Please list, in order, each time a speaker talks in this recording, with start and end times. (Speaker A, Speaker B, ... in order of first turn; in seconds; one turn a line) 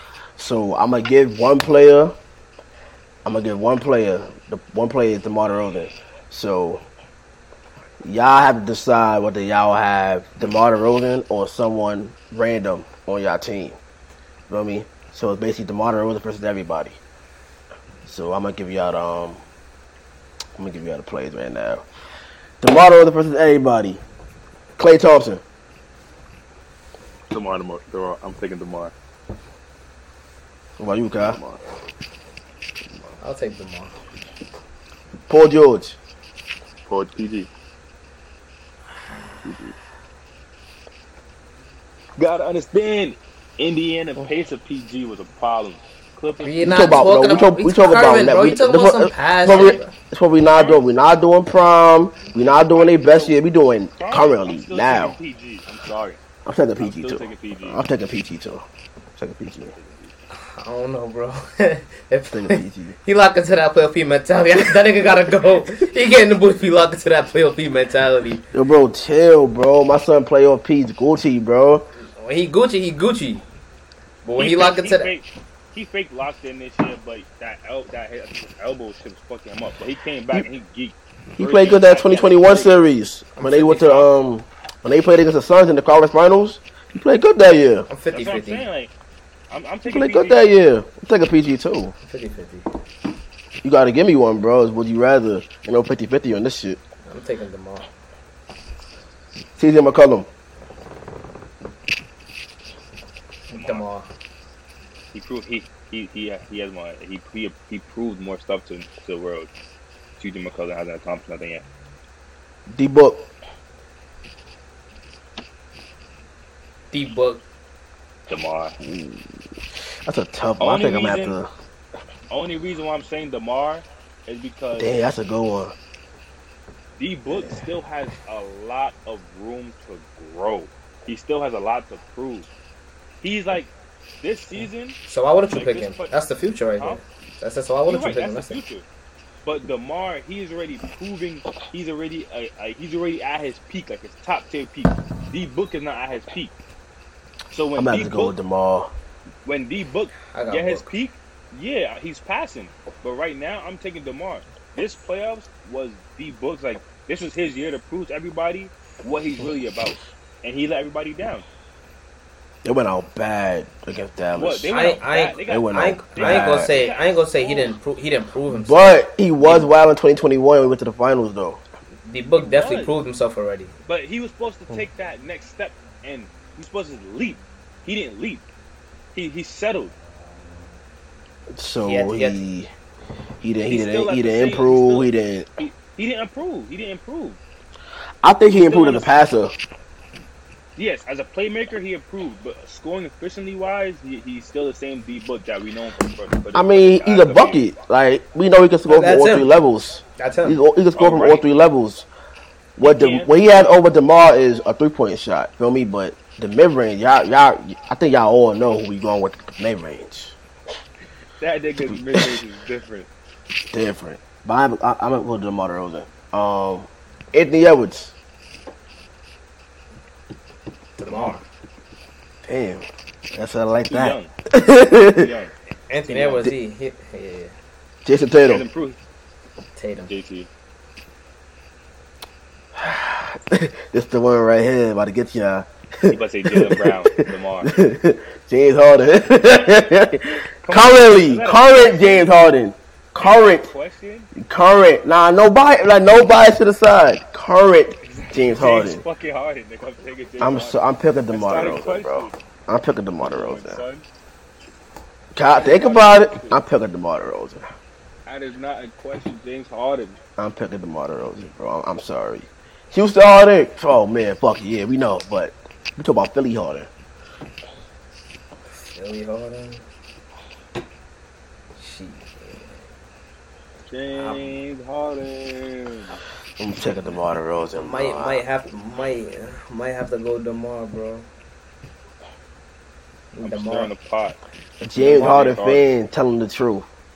Speaker A: 0.4-2.1
Speaker A: 3.2-6.8
Speaker A: 8.0-13.8
Speaker A: 14.5-17.0
Speaker A: 18.0-19.4
Speaker A: 20.6-21.9
Speaker A: 22.6-24.0
Speaker A: 24.8-25.4
Speaker B: 27.3-28.9
Speaker A: 30.8-31.4
Speaker B: 31.2-31.6
Speaker C: 33.2-34.0
Speaker A: 35.3-36.0
Speaker B: 36.9-37.5
Speaker B: 39.4-39.7
Speaker B: 42.2-47.2
Speaker C: 46.4-49.9
Speaker A: 46.6-55.2
Speaker B: 49.5-49.8
Speaker B: 50.5-50.8
Speaker B: 52.5-53.4
Speaker B: 54.0-56.2
Speaker A: 56.5-58.6
Speaker B: 56.8-57.8
Speaker A: 59.2-59.7
Speaker B: 59.7-60.1
Speaker C: 60.3-68.4
Speaker A: 62.3-63.0
Speaker A: 68.5-71.9
Speaker C: 72.0-73.4
Speaker C: 74.2-75.1
Speaker B: 74.4-82.8
Speaker A: 81.4-87.9
Speaker C: 83.3-84.1
Speaker C: 87.9-88.7
Speaker B: 88.1-88.9
Speaker B: 89.5-90.4
Speaker A: 89.8-91.9
Speaker C: 92.0-92.6
Speaker A: 93.6-96.8
Speaker C: 97.1-97.9
Speaker A: 99.6-100.3
Speaker C: 103.5-104.1
Speaker B: 103.5-103.8
Speaker B: 105.1-109.5
Speaker B: 110.2-111.6
Speaker A: 112.7-113.3
Speaker C: 116.9-117.4
Speaker B: 118.3-118.8
Speaker A: 118.8-119.2
Speaker A: 120.0-121.5
Speaker B: 120.6-121.4
Speaker B: 122.3-125.0
Speaker A: 124.8-125.7
Speaker B: 127.0-132.5
Speaker B: 133.2-135.0
Speaker C: 135.1-138.6
Speaker B: 135.5-136.1
Speaker B: 137.9-138.8
Speaker B: 139.4-146.5
Speaker B: 147.5-148.3
Speaker A: 147.8-148.9
Speaker B: 149.4-161.4
Speaker C: 150.3-150.9
Speaker A: 162.6-164.7
Speaker B: 164.3-167.7
Speaker C: 164.7-169.7
Speaker A: 165.4-166.7
Speaker A: 168.5-171.6
Speaker C: 172.1-173.7
Speaker B: 172.4-172.9
Speaker B: 173.8-178.4
Speaker B: 179.1-179.9
Speaker A: 181.5-182.7
Speaker C: 181.8-182.4
Speaker A: 183.4-185.5
Speaker B: 183.7-187.4
Speaker A: 188.2-189.5
Speaker B: 188.6-189.1
Speaker B: 190.8-197.7
Speaker A: 196.5-202.1
Speaker C: 198.9-199.5
Speaker C: 200.2-200.6
Speaker B: 200.9-201.5
Speaker A: 202.8-210.3
Speaker B: 202.8-203.8
Speaker B: 211.4-213.1
Speaker A: 211.9-212.4
Speaker A: 213.7-218.1
Speaker C: 221.0-221.4
Speaker A: 222.4-225.3
Speaker B: 223.9-224.3
Speaker B: 225.0-225.5
Speaker C: 225.9-227.5
Speaker B: 226.1-226.5
Speaker A: 228.0-228.7
Speaker B: 228.4-229.0
Speaker C: 229.8-230.1
Speaker B: 230.1-230.5
Speaker A: 232.7-243.7
Speaker B: 236.1-237.8
Speaker B: 240.6-242.6
Speaker B: 243.2-244.3
Speaker A: 244.3-249.0
Speaker B: 248.0-252.3
Speaker A: 250.4-253.8
Speaker B: 253.2-254.0
Speaker A: 255.3-257.6
Speaker B: 255.5-256.6
Speaker B: 258.2-260.2
Speaker A: 260.4-266.9
Speaker C: 268.8-269.8
Speaker C: 271.8-272.6
Speaker B: 273.9-276.2
Speaker C: 274.1-274.5
Speaker A: 276.6-278.4
Speaker C: 277.7-281.2
Speaker C: 283.3-283.9
Speaker B: 283.4-284.4
Speaker A: 284.8-286.9
Speaker B: 284.9-285.9